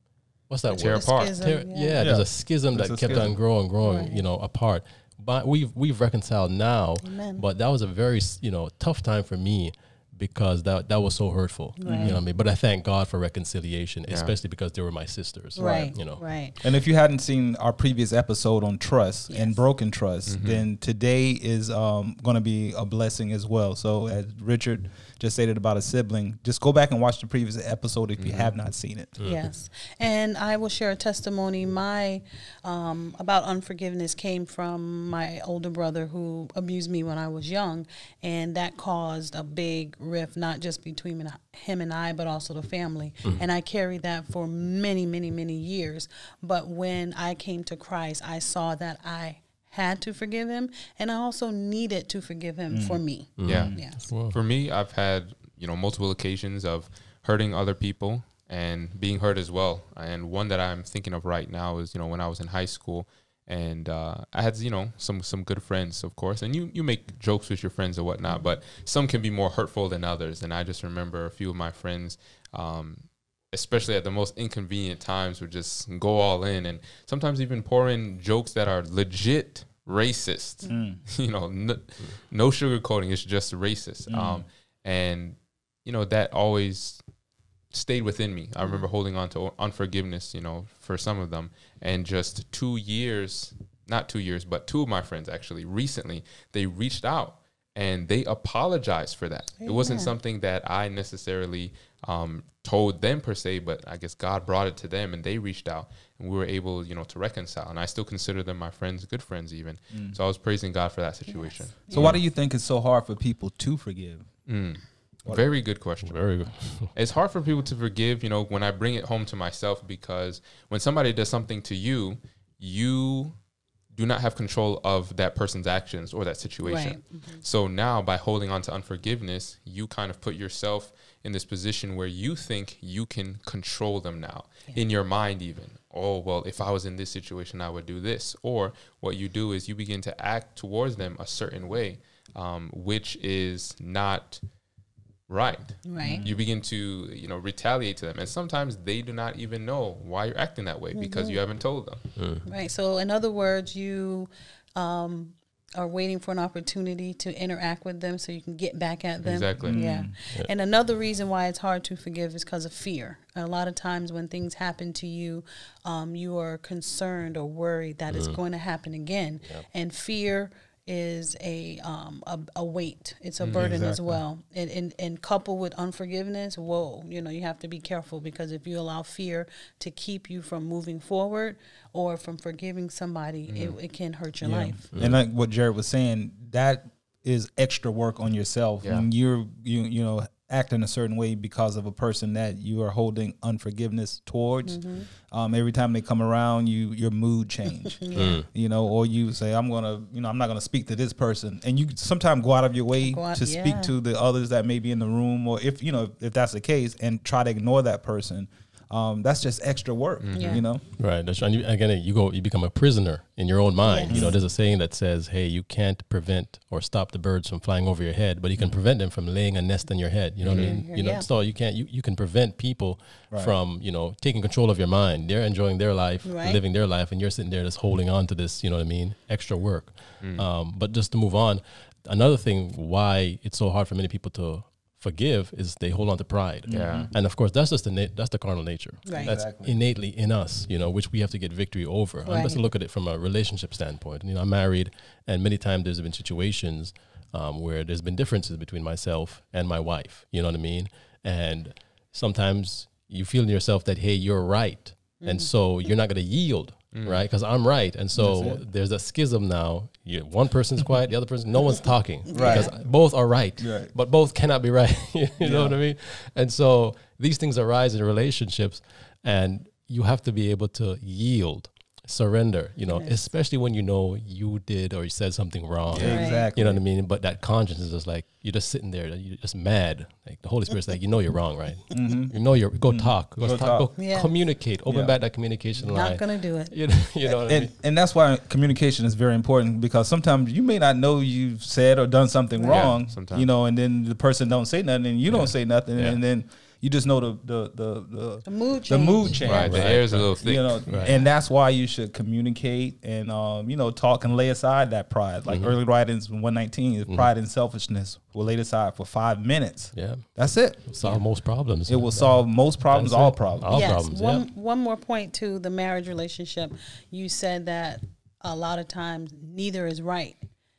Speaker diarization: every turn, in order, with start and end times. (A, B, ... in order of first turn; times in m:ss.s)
0:00.5-0:16.2 A
0:00.7-0:01.4 B
0:00.9-0:02.1 C
0:02.0-0:03.4 D
0:03.8-0:04.2 C
0:07.0-0:07.4 C
0:11.8-0:12.2 C
0:11.8-0:12.2 D
0:14.1-0:14.3 B
0:15.6-0:16.6 C
0:15.6-0:15.9 D
0:16.6-0:29.2 D
0:19.3-0:19.6 C
0:20.3-0:20.6 B
0:28.2-0:28.5 B
0:29.2-0:29.5 A
0:29.2-0:54.0 C
0:52.7-0:53.0 D
0:53.4-0:54.4 A
0:53.4-1:27.0 B
1:20.7-1:21.0 D
1:24.1-1:24.4 D
1:27.7-1:52.1 B
1:28.6-1:28.9 C
1:39.6-1:40.1 C
1:49.9-1:50.2 D
1:51.3-1:52.2 C
1:51.9-1:54.3 D
1:54.4-2:03.4 B
1:56.0-1:56.9 A
2:03.9-2:24.4 B
2:06.6-2:07.4 C
2:25.3-2:32.1 B
2:25.8-2:26.3 C
2:26.0-2:26.3 D
2:30.9-2:31.4 C
2:32.2-2:32.4 A
2:32.4-3:04.9 C
2:39.2-2:39.8 B
2:39.6-2:40.1 D
2:48.1-2:48.4 A
2:53.4-2:53.7 B
2:53.5-2:54.2 D
3:03.5-3:03.8 B
3:04.4-3:30.8 D
3:04.9-3:05.2 A
3:14.6-3:15.1 C
3:17.7-3:18.4 C
3:18.1-3:18.5 A
3:23.0-3:23.9 C
3:30.2-3:30.6 B
3:30.3-3:30.6 C
3:31.0-4:47.7 A
3:33.8-3:34.3 C
3:34.1-3:34.4 D
3:40.4-3:40.8 B
3:40.5-3:41.3 C
3:46.2-3:46.6 C
3:50.2-3:50.4 B
3:56.7-3:57.1 D
3:56.7-3:57.1 B
3:59.0-3:59.4 C
3:59.2-3:59.8 D
4:02.2-4:02.6 C
4:15.2-4:15.5 C
4:16.9-4:17.2 B
4:18.1-4:18.6 D
4:22.3-4:22.9 D
4:22.4-4:22.7 C
4:23.6-4:23.9 D
4:25.4-4:25.8 D
4:32.9-4:33.2 C
4:35.9-4:36.8 D
4:36.0-4:36.4 C
4:41.9-4:43.9 D
4:44.0-4:44.3 C
4:44.8-4:45.2 D
4:45.8-4:46.7 C
4:47.2-5:11.2 D
4:52.5-4:52.9 C
4:52.7-4:53.5 B
4:55.3-4:56.2 A
4:58.4-4:59.5 C
4:59.4-5:01.1 B
4:59.5-5:01.2 A
5:05.4-5:05.7 A
5:09.9-5:14.4 A
5:11.8-5:14.0 D
5:13.7-5:20.4 C